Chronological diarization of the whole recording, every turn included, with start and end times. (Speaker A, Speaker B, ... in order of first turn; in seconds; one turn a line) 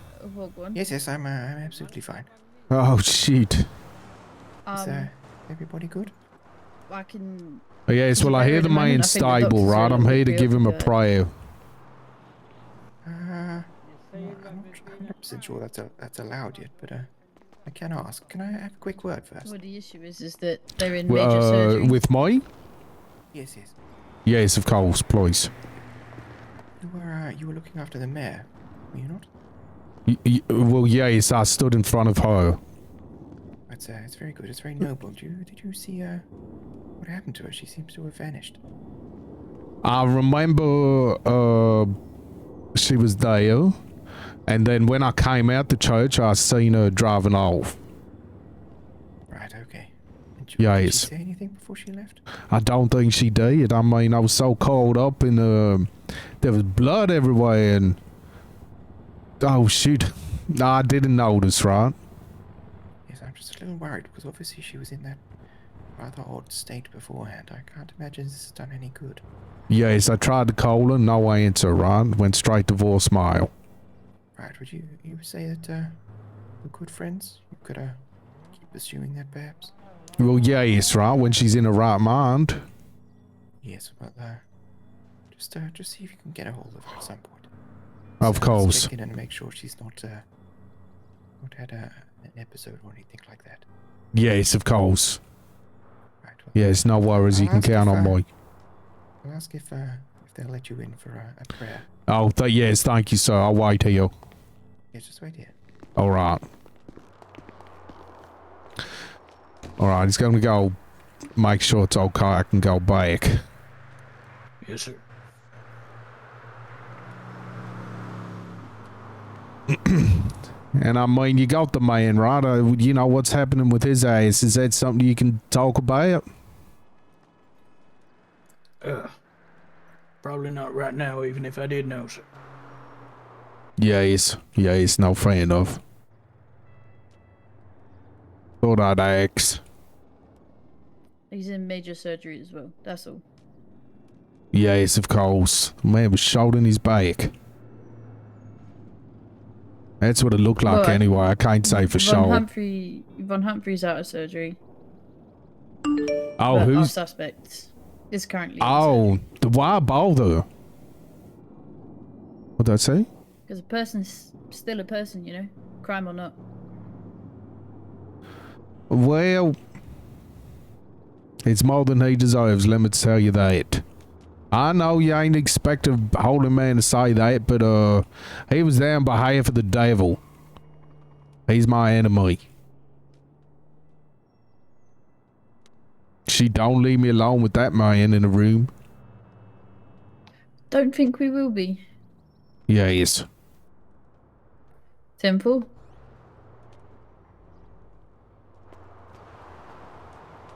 Speaker A: 0.1-0.8
Speaker B: 0.7-2.3
Speaker C: 2.7-3.7
Speaker A: 4.7-5.1
Speaker B: 4.7-6.1
Speaker A: 6.9-11.0
Speaker C: 7.9-11.3
Speaker B: 13.0-17.1
Speaker B: 17.6-19.5
Speaker A: 19.4-22.0
Speaker C: 21.1-22.5
Speaker B: 23.3-23.8
Speaker C: 24.2-25.5
Speaker B: 26.8-29.3
Speaker C: 30.1-32.6
Speaker B: 33.7-36.3
Speaker B: 37.0-38.6
Speaker C: 39.8-41.9
Speaker C: 42.7-43.8
Speaker C: 44.5-47.8
Speaker B: 49.3-52.2
Speaker C: 50.6-51.1
Speaker C: 52.5-58.0
Speaker C: 59.4-62.0
Speaker B: 63.1-65.2
Speaker B: 66.0-69.2
Speaker C: 69.7-73.5
Speaker B: 74.3-76.0
Speaker B: 76.6-78.0
Speaker B: 78.6-79.7
Speaker C: 80.2-82.7
Speaker B: 83.6-84.5
Speaker B: 85.3-87.5
Speaker C: 88.2-88.9
Speaker B: 88.2-90.2
Speaker B: 91.4-93.7
Speaker C: 94.1-95.2
Speaker B: 96.2-98.2
Speaker C: 96.5-98.3
Speaker B: 99.2-101.9
Speaker C: 102.1-104.1
Speaker B: 104.9-105.5
Speaker C: 106.0-106.4
Speaker C: 109.8-110.8
Speaker C: 111.3-113.4
Speaker D: 114.6-115.0
Speaker C: 119.7-126.2
Speaker D: 128.8-129.1
Speaker D: 130.2-132.2
Speaker C: 133.8-135.8
Speaker C: 138.6-139.6
Speaker A: 141.3-143.2
Speaker C: 144.5-147.3
Speaker C: 150.0-152.4
Speaker A: 150.6-151.1
Speaker A: 151.6-154.6
Speaker C: 156.4-156.9
Speaker A: 156.5-159.2
Speaker C: 158.6-160.5
Speaker C: 162.6-163.1
Speaker A: 163.5-166.4
Speaker C: 168.9-169.6
Speaker C: 171.4-173.8
Speaker C: 174.5-180.2
Speaker C: 181.5-182.4
Speaker C: 186.3-188.7
Speaker A: 190.7-191.8
Speaker C: 192.7-193.2
Speaker A: 195.2-195.7